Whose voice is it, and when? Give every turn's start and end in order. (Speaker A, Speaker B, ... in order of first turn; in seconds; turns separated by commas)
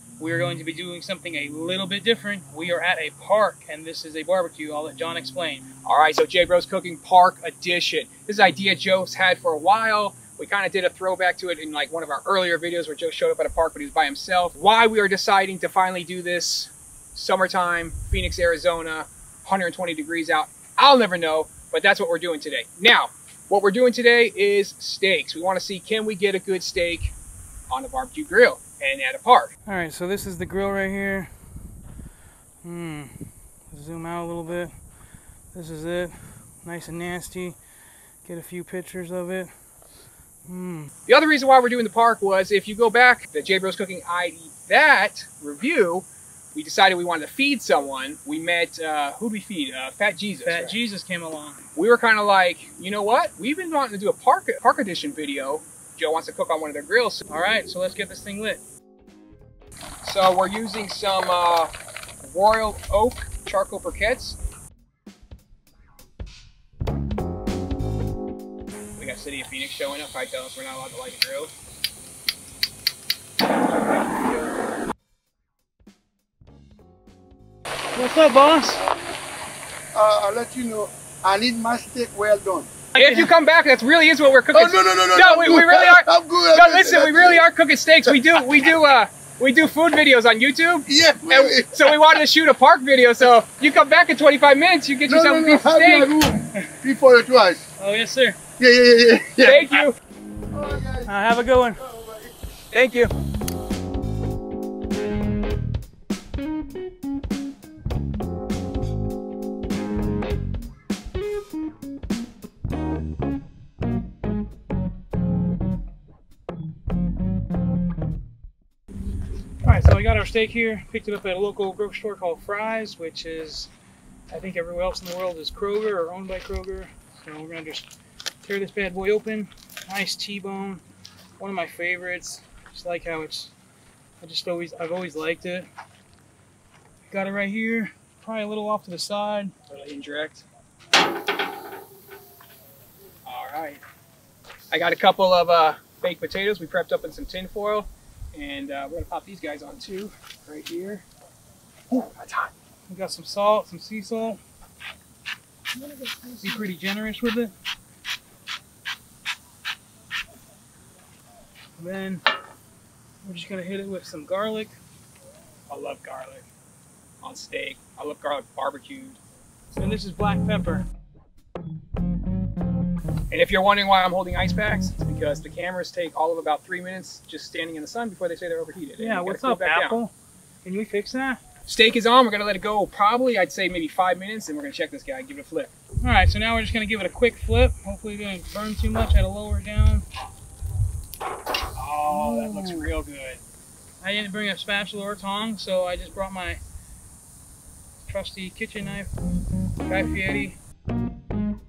Speaker A: 0.2-5.7, Speaker B: 5.9-27.1, Speaker B: 27.7-29.5, Speaker A: 29.7-31.3, Speaker A: 32.6-34.7, Speaker A: 35.5-37.6, Speaker A: 38.2-39.5, Speaker A: 40.5-40.9, Speaker B: 41.1-50.8, Speaker A: 50.5-51.6, Speaker B: 51.8-57.2, Speaker A: 57.3-58.6, Speaker B: 60.0-61.7, Speaker B: 62.2-64.4, Speaker B: 69.0-71.5, Speaker B: 73.6-74.5, Speaker A: 78.0-78.8, Speaker C: 79.9-82.7, Speaker B: 83.0-96.2, Speaker A: 83.0-83.3, Speaker C: 84.5-87.4, Speaker C: 90.9-91.9, Speaker C: 95.1-97.6, Speaker A: 97.8-98.4, Speaker C: 98.6-99.7, Speaker B: 99.4-100.0, Speaker C: 100.5-101.2, Speaker A: 101.1-101.8, Speaker C: 101.8-102.3, Speaker B: 102.7-103.1, Speaker A: 119.6-123.7, Speaker A: 124.3-127.9, Speaker A: 128.4-130.8, Speaker A: 131.4-133.5, Speaker A: 134.2-135.7, Speaker A: 137.1-139.5, Speaker B: 139.7-140.4, Speaker B: 143.3-143.8, Speaker B: 144.7-151.0, Speaker B: 151.9-152.5, Speaker A: 152.9-154.4, Speaker B: 155.8-156.7, Speaker A: 156.4-157.5, Speaker A: 161.8-162.2, Speaker A: 163.2-164.8, Speaker B: 165.7-166.4, Speaker B: 167.2-169.2, Speaker A: 169.8-170.9, Speaker B: 173.3-180.0, Speaker A: 179.0-180.1, Speaker A: 180.7-181.4, Speaker B: 181.7-185.7, Speaker A: 186.0-190.1, Speaker B: 191.8-193.4, Speaker A: 192.1-192.9, Speaker A: 194.0-196.6, Speaker A: 198.1-199.1, Speaker A: 199.9-200.6